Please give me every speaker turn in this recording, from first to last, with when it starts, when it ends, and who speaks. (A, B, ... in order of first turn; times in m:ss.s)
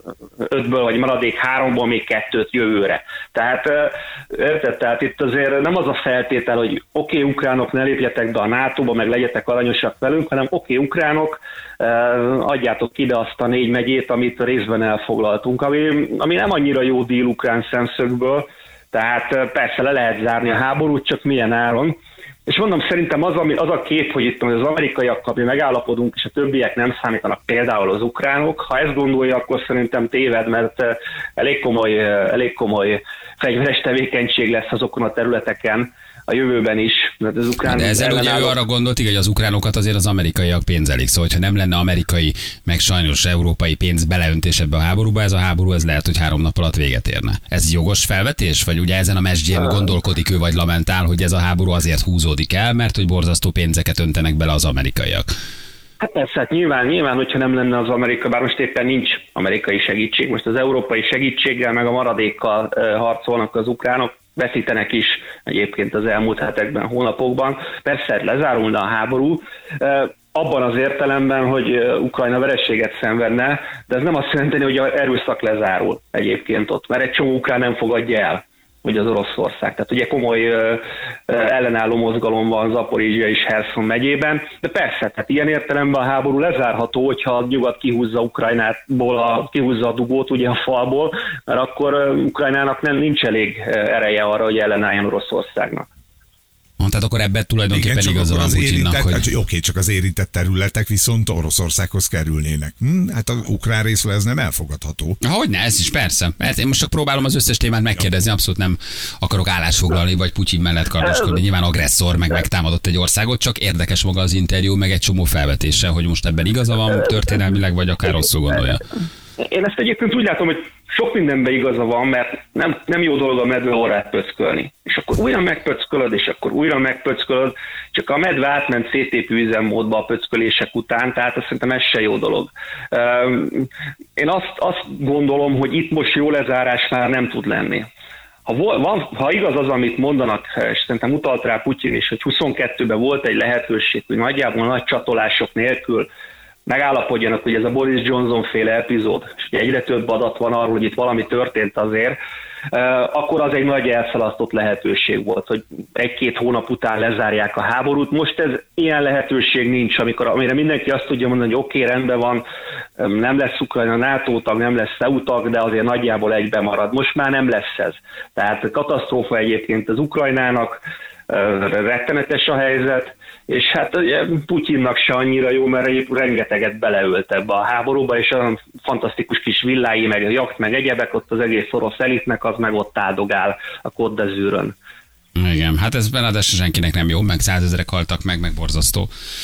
0:00.4-0:38.6 A
0:37.6-0:55.3 B
0:56.0-1:35.9 A
1:36.8-1:39.3 B
1:37.7-1:45.2 C
1:45.2-1:58.9 B
1:59.4-2:17.9 A
2:18.5-2:26.1 A
2:26.7-2:32.2 A
2:32.7-2:42.4 A
2:43.0-3:04.7 A
3:05.4-3:09.1 B